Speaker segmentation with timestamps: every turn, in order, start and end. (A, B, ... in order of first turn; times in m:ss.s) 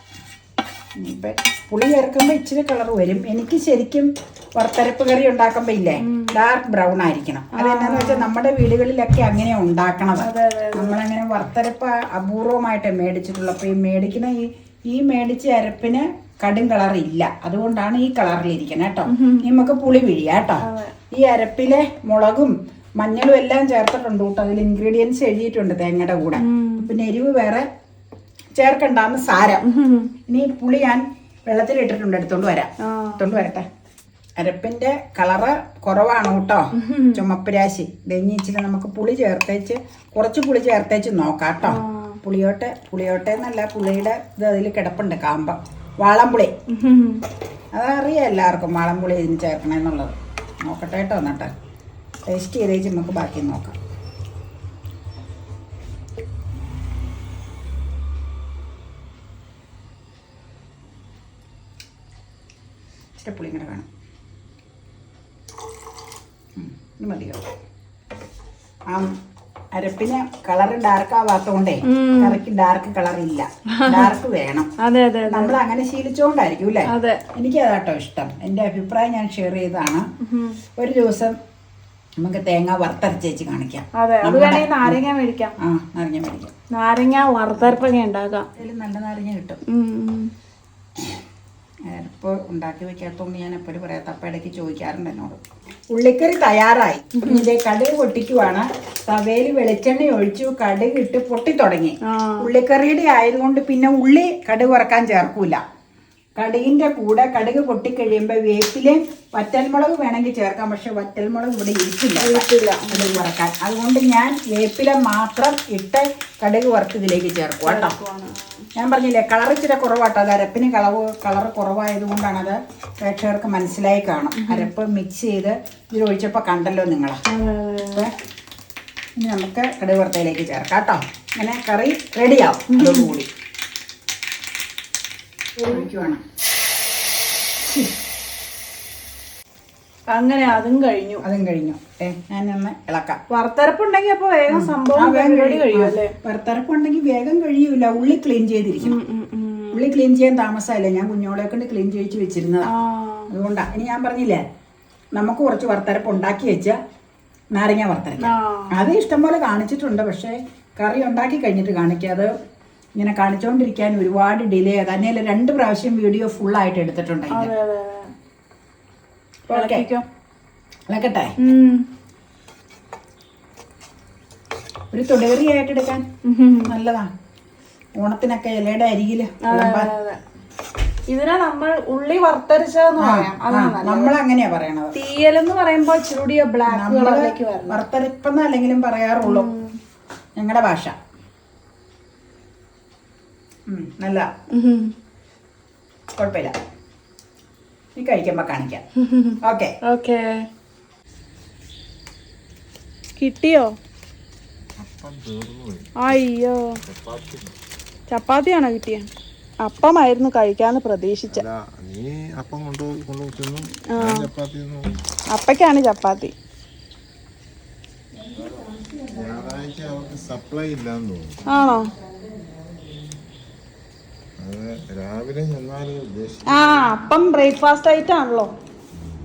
0:01.0-0:27.7 A
0:06.0-0:06.3 B
0:07.5-0:08.3 B
0:10.2-0:11.0 B
0:19.1-0:19.4 B
0:20.6-0:20.9 B
0:26.4-0:26.9 B
0:28.6-0:29.7 A
0:29.6-0:30.1 B
0:30.3-0:33.7 A
0:32.8-0:33.5 B
0:34.4-0:46.5 A
0:36.8-0:37.2 B
0:41.6-0:42.2 B
0:46.7-0:47.2 B
0:47.7-0:51.5 A
0:52.3-0:53.8 A
1:03.2-1:03.9 A
1:06.6-1:07.4 A
1:09.8-1:14.7 A
1:11.9-1:12.4 B
1:13.7-1:14.1 B
1:14.8-1:15.6 B
1:15.3-1:20.0 A
1:16.9-1:17.2 B
1:20.2-1:20.6 B
1:20.8-1:21.4 A
1:22.2-1:25.0 A
1:23.9-1:25.6 B
1:25.6-1:26.5 A
1:26.7-1:28.5 B
1:28.6-1:29.6 A
1:29.7-1:30.3 B
1:31.9-1:35.4 A
1:35.9-1:45.6 A
1:37.2-1:37.5 B
1:42.0-1:42.5 B
1:46.4-1:57.9 A
1:52.2-1:53.2 B
1:57.6-1:58.6 B
1:58.8-2:07.2 A
2:04.4-2:04.7 B
2:07.3-2:08.1 B
2:07.8-2:08.1 A
2:09.2-2:13.3 A
2:12.7-2:13.1 B
2:15.6-2:15.9 B
2:15.6-2:16.2 A
2:20.1-2:21.2 B
2:21.2-2:23.2 A
2:23.3-2:26.1 B
2:24.5-2:29.0 A
2:28.8-2:29.8 B
2:29.7-2:32.7 A
2:32.6-2:33.3 B
2:33.3-2:34.4 A
2:35.1-2:36.8 A
2:37.5-2:42.3 A
2:38.2-2:38.8 B
2:43.0-2:47.5 A
2:47.3-2:48.1 B
2:49.5-2:49.9 A
2:49.5-2:50.0 B
2:50.9-2:51.3 A
2:51.4-2:51.8 B
2:54.9-2:56.0 A
2:56.2-2:56.7 B
2:56.6-2:57.1 A
2:58.0-2:59.9 A
2:59.4-3:00.2 B
3:01.1-3:04.1 B
3:03.0-3:05.0 A
3:05.0-3:07.8 B
3:06.7-3:09.5 A
3:09.2-3:09.8 B
3:10.4-3:11.0 A
3:13.7-3:14.3 A
3:14.5-3:14.9 B
3:16.2-3:16.6 A
3:18.0-3:18.8 A
3:19.0-3:20.4 B
3:19.4-3:19.7 A
3:23.2-3:23.8 B
3:24.8-3:26.2 C
3:26.0-3:26.8 B
3:26.8-3:27.5 C
3:28.1-3:29.1 B
3:29.6-3:31.4 B
3:31.3-3:35.0 C
3:33.9-3:34.3 B
3:35.3-3:36.3 B
3:38.2-3:39.1 A
3:38.4-3:41.4 C
3:41.5-3:41.9 B
3:44.4-3:46.9 C
3:46.5-3:48.5 B